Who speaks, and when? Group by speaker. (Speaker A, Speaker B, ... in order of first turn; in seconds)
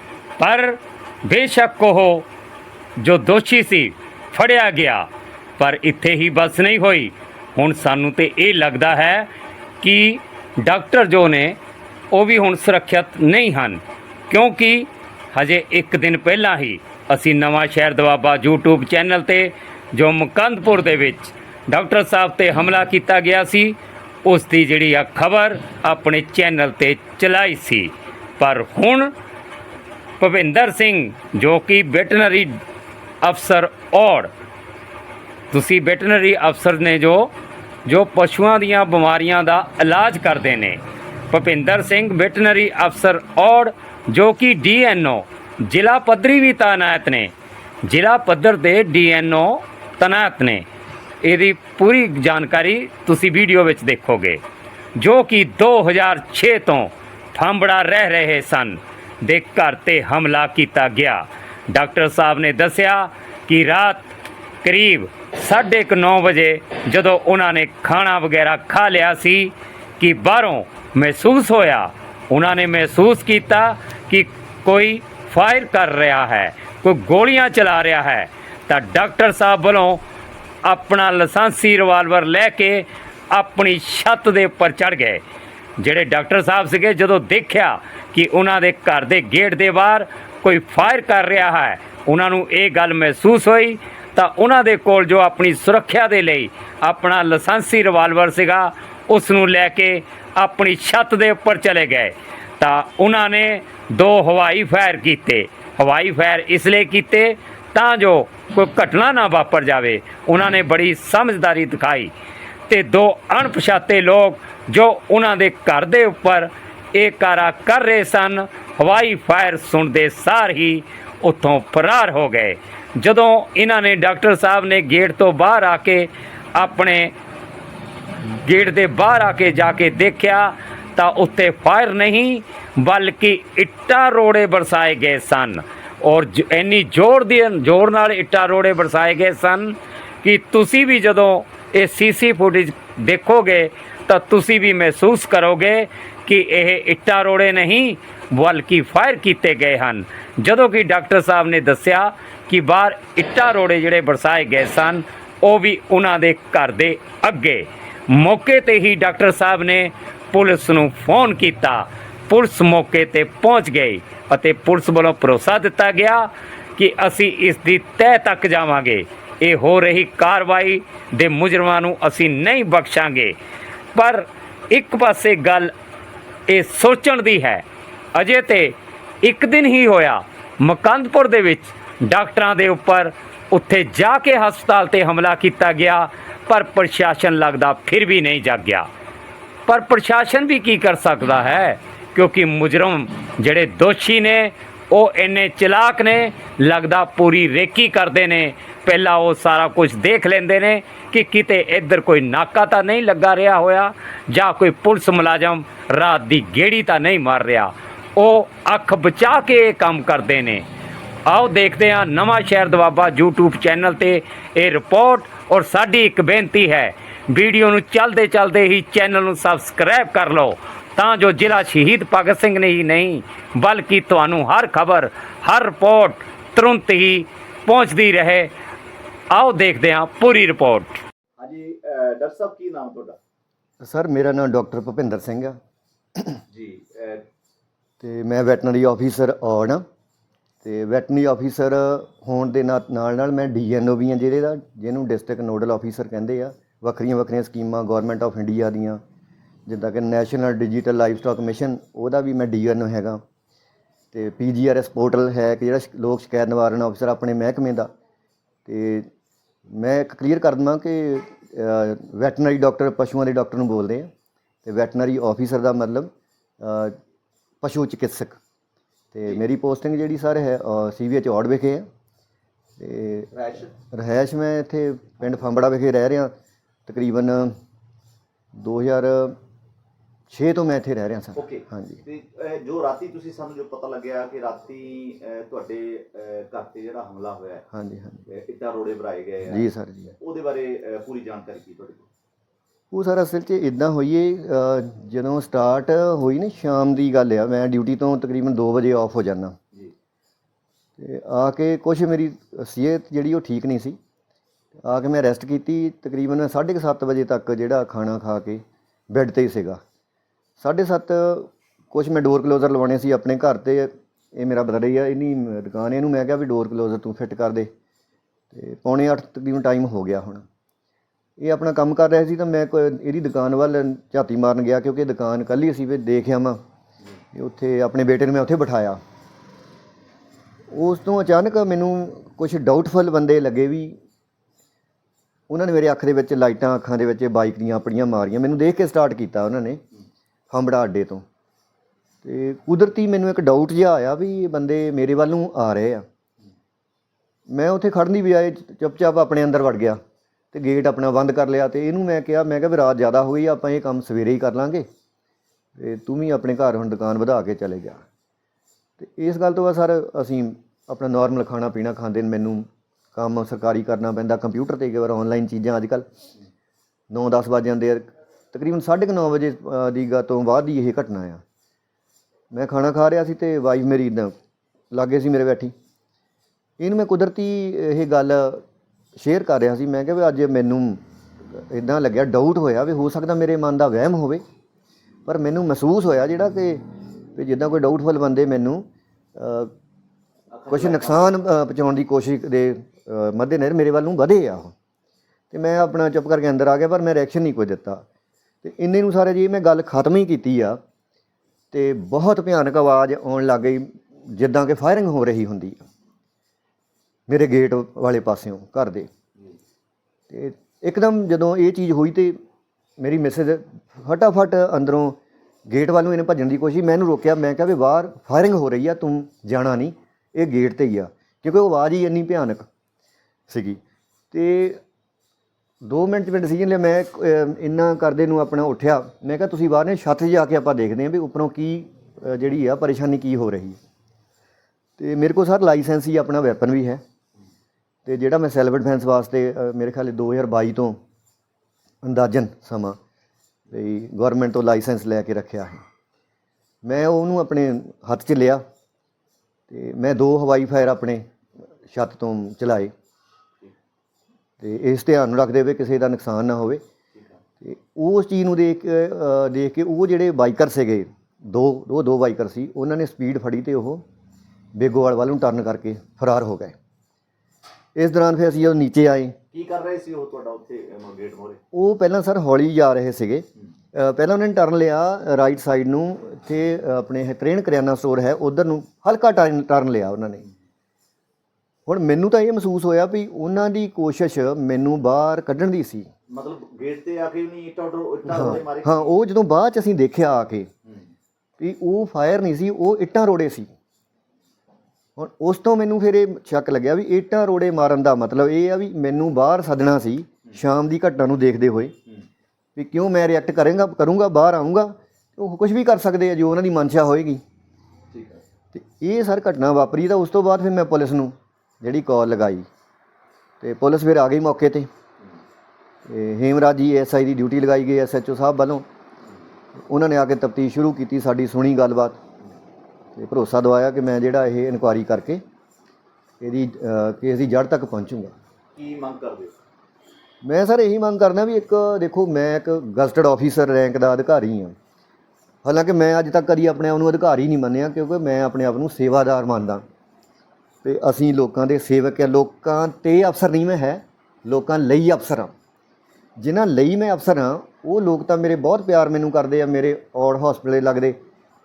Speaker A: 0.4-2.2, 3.0-5.0, 5.6-9.3, 9.8-11.6, 12.1-29.1, 30.2-32.6, 33.2-34.3, 35.5-37.3, 37.9-47.3, 47.8-50.6, 51.2-54.4, 55.0-64.1, 64.6-80.0, 80.6-85.2, 85.8-112.1, 112.7-127.1, 128.4-173.3, 173.9-175.7, 176.5-188.9, 189.7-210.6, 211.3-228.5, 229.3-231.0
Speaker B: 231.4-233.2, 236.5-237.2, 273.3-273.7, 281.4-287.6, 288.3-289.6, 290.2-292.1, 390.5-391.3, 469.5-471.6, 486.3-489.1, 508.1-508.4, 528.8-529.5
Speaker C: 233.8-235.6, 238.0-239.8, 240.6-249.0, 249.7-253.2, 254.1-257.9, 258.6-259.1, 259.7-264.1, 264.6-266.9, 267.6-268.4, 269.1-271.9, 272.8-276.3, 276.9-277.5, 278.5-279.4, 280.3-282.0, 287.7-288.2, 289.5-290.1, 292.9-299.6, 301.0-304.0, 304.8-309.8, 310.6-317.7, 318.5-320.4, 321.4-326.6, 327.3-329.0, 330.7-334.0, 335.5-339.8, 340.5-341.2, 342.2-346.0, 347.5-350.0, 350.5-354.9, 355.8-358.0, 359.0-366.1, 367.1-371.4, 372.5-374.3, 374.9-375.7, 376.8-378.6, 379.1-381.0, 381.5-384.4, 385.2-386.8, 387.3-388.8, 389.4-389.7, 390.7-394.7, 395.5-398.0, 398.6-400.8, 401.7-405.9, 407.3-409.1, 410.3-412.4, 413.0-422.7, 423.5-423.8, 424.3-424.8, 425.8-433.8, 435.0-437.0, 438.1-441.0, 442.0-443.0, 443.7-445.8, 446.8-448.6, 449.7-451.2, 451.9-452.9, 454.6-456.8, 457.6-464.0, 464.7-466.7, 467.9-469.3, 471.7-480.4, 481.9-486.1, 488.2-490.7, 491.6-493.7, 495.2-501.9, 502.8-507.4, 508.7-512.6, 513.6-514.9, 516.0-518.8, 519.9-522.2, 523.1-525.4, 526.4-528.3, 530.4-534.7, 535.6-539.8, 540.8-545.5, 546.4-551.1